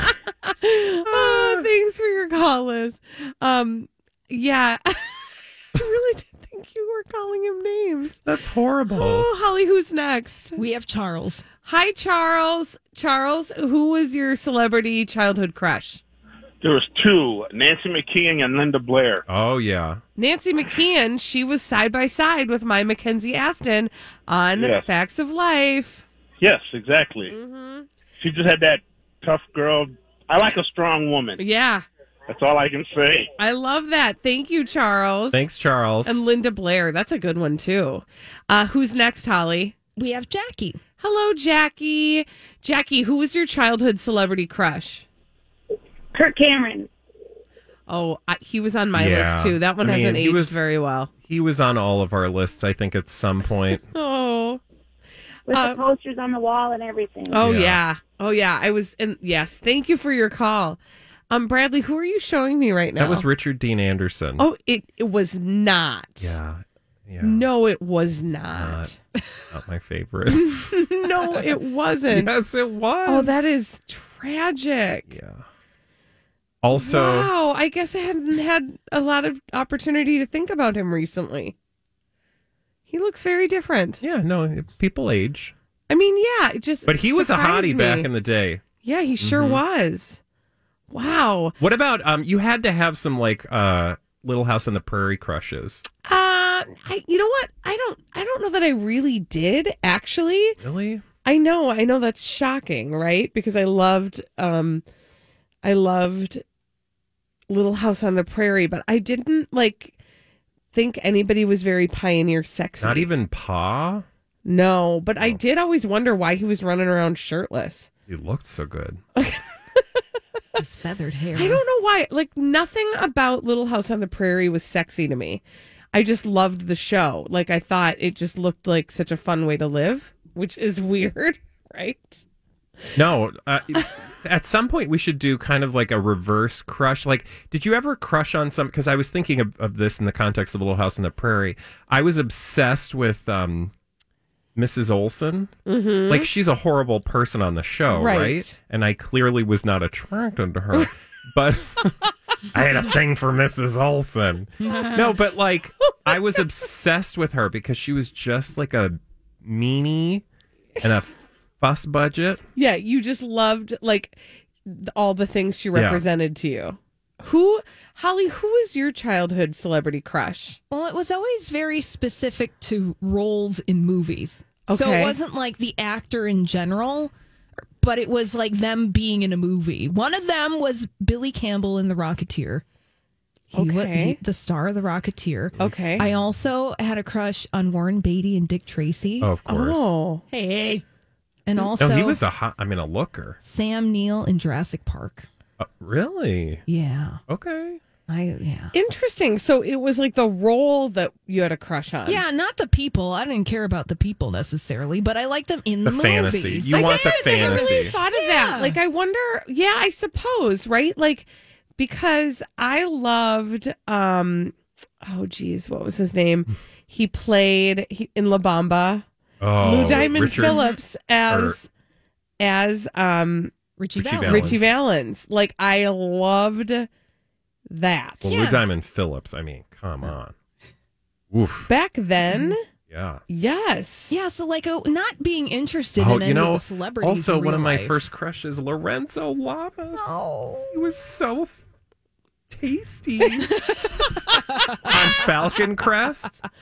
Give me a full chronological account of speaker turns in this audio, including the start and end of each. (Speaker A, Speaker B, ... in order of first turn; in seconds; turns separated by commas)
Speaker A: 0.5-8.2, Speaker B: 1.1-1.6, Speaker B: 8.3-9.3, Speaker A: 8.9-10.6, Speaker C: 10.6-11.4, Speaker A: 11.6-16.0, Speaker D: 16.6-19.2, Speaker B: 19.3-20.0, Speaker A: 20.2-26.1, Speaker D: 24.6-24.9, Speaker D: 26.4-27.4, Speaker A: 27.3-27.9, Speaker D: 28.2-31.4, Speaker A: 31.4-31.9, Speaker D: 32.3-33.3, Speaker A: 33.4-35.5, Speaker B: 35.3-36.2, Speaker A: 36.0-39.8, Speaker C: 40.0-40.8, Speaker A: 41.0-45.1, Speaker E: 46.1-46.9, Speaker A: 47.9-51.1, Speaker B: 48.9-50.6, Speaker B: 51.3-53.9, Speaker A: 53.9-54.6, Speaker E: 55.5-57.4, Speaker A: 55.5-55.8, Speaker A: 57.3-60.8, Speaker B: 57.4-57.8, Speaker A: 61.3-63.3, Speaker B: 63.0-64.5, Speaker A: 64.4-66.4, Speaker B: 66.2-67.5, Speaker A: 67.2-69.0, Speaker B: 68.5-68.9, Speaker B: 69.5-70.6, Speaker A: 70.3-72.3, Speaker B: 72.1-73.4, Speaker A: 73.1-75.1, Speaker B: 75.1-75.4, Speaker B: 76.6-77.3, Speaker A: 76.7-81.5, Speaker A: 82.9-84.0, Speaker B: 84.0-85.5, Speaker A: 85.9-88.1, Speaker B: 86.9-88.6, Speaker A: 88.8-90.2, Speaker B: 89.2-89.6, Speaker A: 90.9-91.6, Speaker B: 91.6-95.8, Speaker A: 96.0-100.6, Speaker B: 100.6-101.0, Speaker A: 101.2-104.8, Speaker A: 105.6-106.4, Speaker A: 107.5-110.0, Speaker A: 110.7-113.1, Speaker B: 112.8-114.0, Speaker A: 114.4-117.9, Speaker B: 118.1-119.0, Speaker A: 119.2-120.0, Speaker C: 120.6-121.6, Speaker A: 121.3-132.2, Speaker B: 132.9-143.7, Speaker B: 144.6-145.5, Speaker A: 145.7-146.3, Speaker B: 146.1-152.0, Speaker A: 147.9-148.6, Speaker B: 152.5-160.2, Speaker C: 154.7-155.0, Speaker A: 156.1-156.4, Speaker B: 160.8-162.4, Speaker A: 162.6-170.6, Speaker B: 165.7-166.0, Speaker C: 170.7-177.1, Speaker A: 174.7-175.2, Speaker C: 177.8-182.6, Speaker C: 183.5-189.3, Speaker A: 183.5-184.2, Speaker A: 185.6-186.1, Speaker B: 189.2-189.9, Speaker A: 189.5-190.3, Speaker C: 190.3-190.8, Speaker C: 191.5-192.2, Speaker B: 191.8-193.4, Speaker C: 193.4-195.3, Speaker B: 195.6-196.6, Speaker C: 196.7-197.2, Speaker B: 197.3-197.8, Speaker C: 198.1-198.7, Speaker A: 198.7-202.2, Speaker C: 202.1-208.8, Speaker B: 205.8-208.0, Speaker A: 206.7-219.1, Speaker B: 219.4-220.6, Speaker A: 219.6-221.7, Speaker C: 219.9-220.8, Speaker B: 221.3-221.6, Speaker A: 222.4-223.5, Speaker C: 223.8-224.7, Speaker B: 224.0-224.7, Speaker A: 224.3-226.9, Speaker A: 227.7-228.3, Speaker B: 228.2-230.3, Speaker C: 228.2-228.7, Speaker B: 231.3-231.7, Speaker A: 231.7-232.6, Speaker C: 232.3-232.5, Speaker B: 232.9-233.2, Speaker A: 233.3-234.2, Speaker C: 234.1-238.1, Speaker B: 236.0-240.1, Speaker C: 239.9-240.8, Speaker B: 240.7-241.6, Speaker B: 242.5-243.5, Speaker C: 243.6-244.4, Speaker B: 244.8-246.4